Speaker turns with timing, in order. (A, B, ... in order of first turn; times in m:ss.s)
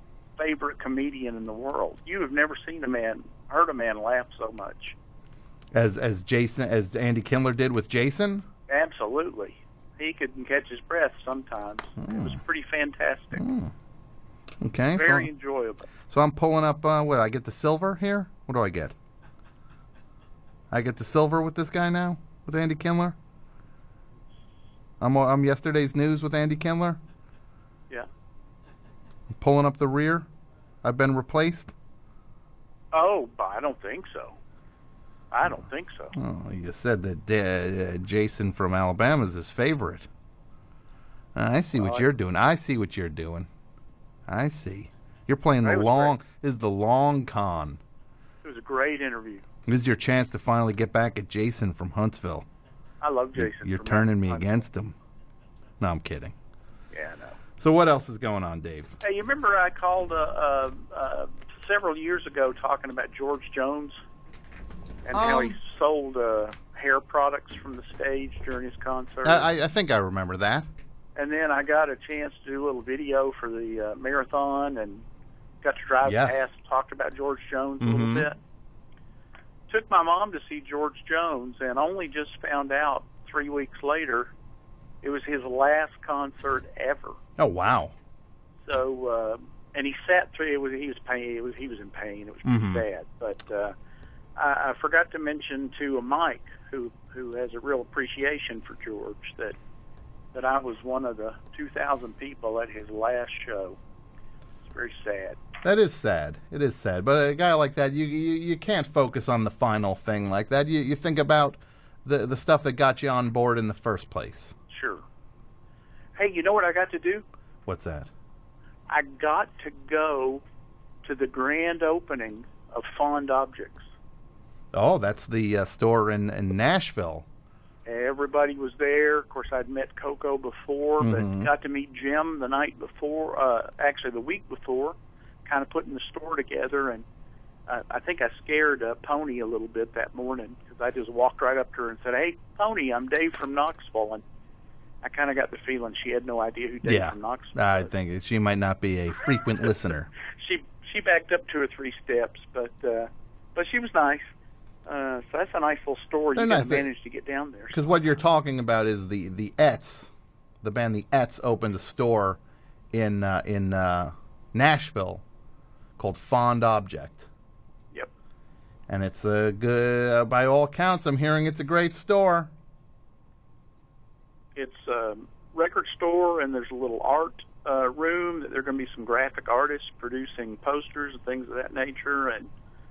0:00.4-0:05.0 A
0:05.7-0:08.4 B
0:08.7-0:13.4 A
0:12.0-0:12.4 B
0:13.4-0:13.7 B
0:14.6-0:15.3 B
0:14.9-0:15.9 A
0:16.1-0:18.9 B
0:20.7-0:23.1 B
0:25.0-0:27.0 B
0:29.4-0:30.3 B
0:30.8-0:31.7 B
0:32.9-0:34.4 A
0:35.3-0:36.1 A
0:36.1-0:40.1 B
0:41.3-0:43.5 B
0:41.7-0:42.0 A
0:44.3-0:47.8 B
0:45.6-0:46.2 A
0:48.4-0:49.4 A
0:49.6-0:52.4 B
0:53.0-0:54.6 A
0:53.4-0:54.9 B
0:55.8-0:56.3 B
0:56.9-0:57.4 A
0:57.6-0:59.0 B
0:59.0-1:04.0 A
1:05.1-1:09.5 A
1:05.1-1:05.6 B
1:09.2-1:10.7 B
1:11.2-1:15.0 A
1:15.6-1:18.4 A
1:16.0-1:16.4 B
1:17.8-1:18.3 B
1:19.7-1:24.3 A
1:25.0-1:27.2 A
1:27.4-1:27.9 B
1:28.6-1:33.7 A
1:32.4-1:32.8 B
1:34.4-1:39.6 A
1:40.3-1:43.8 A
1:44.7-1:45.4 A
1:45.6-1:54.5 B
1:54.7-1:55.0 A
1:56.2-1:57.2 A
1:57.6-1:58.1 B
1:58.9-2:00.4 A
2:01.0-2:03.8 A
2:04.7-2:07.2 B
2:07.8-2:17.0 A
2:11.0-2:11.5 B
2:17.7-2:24.2 A
2:25.0-2:27.9 A
2:26.8-2:30.1 B
2:30.4-2:34.3 A
2:34.9-2:37.8 A
2:36.4-2:36.9 B
2:37.7-2:40.1 B
2:40.6-2:42.4 B
2:42.9-2:45.2 B
2:46.0-2:47.3 B
2:48.9-2:52.5 B
2:54.6-3:02.5 A